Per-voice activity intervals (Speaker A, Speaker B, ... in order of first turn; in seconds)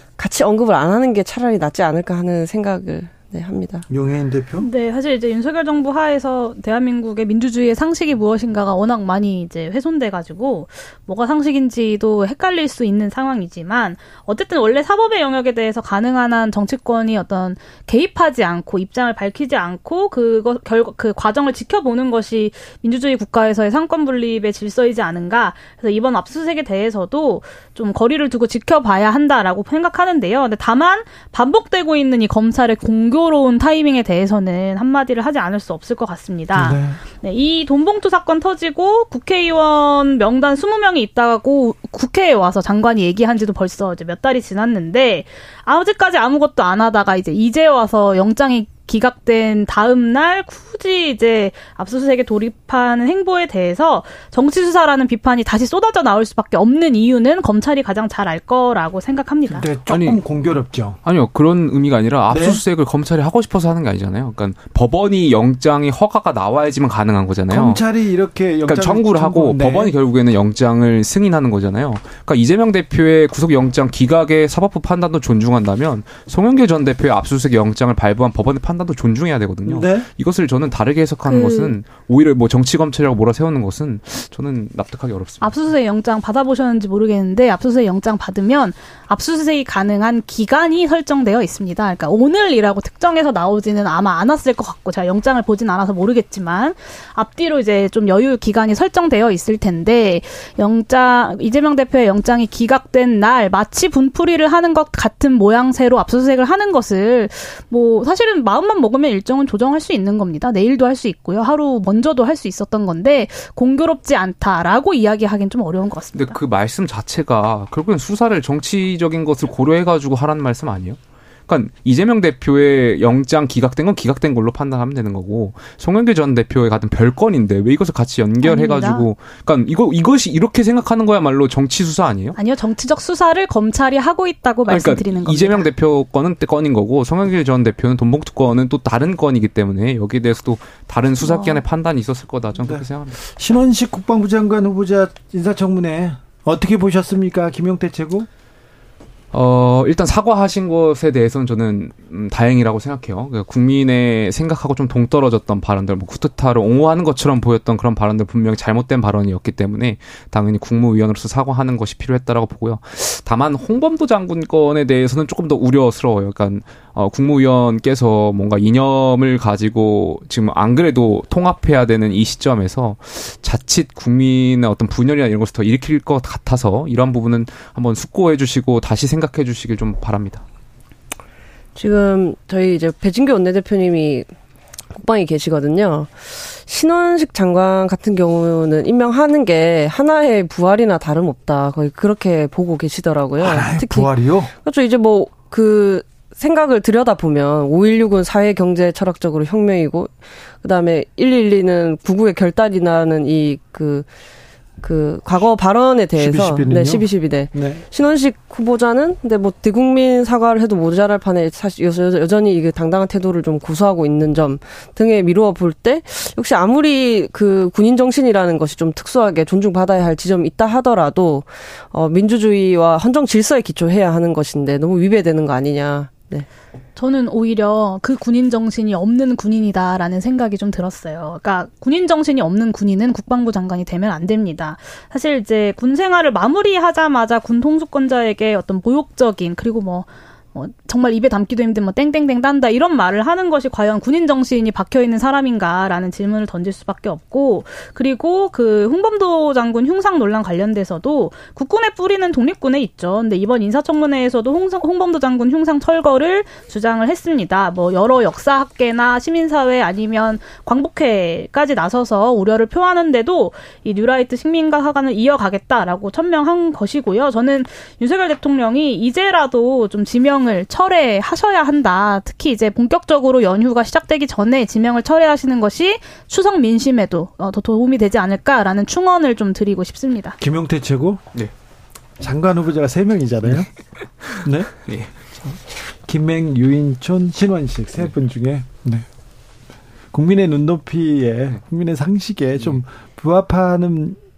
Speaker A: 0.2-3.9, 181.8-184.3, 184.9-204.1, 204.8-226.5
Speaker B: 3.9-4.7, 36.5-37.0, 59.5-61.0, 62.3-62.6, 67.5-69.9, 79.7-80.1, 142.6-148.3, 193.4-194.5, 206.2-207.8, 280.4-281.3, 282.2-283.7, 284.4-284.9, 285.9-289.1, 290.1-294.2
Speaker C: 4.6-59.7, 81.2-81.8, 85.4-116.4, 128.4-129.1, 132.4-135.7, 141.2-141.6, 227.0-280.4
Speaker D: 59.9-60.2, 61.0-67.8, 68.7-85.7, 116.1-132.4, 134.7-143.2, 149.3-180.4, 284.2-285.3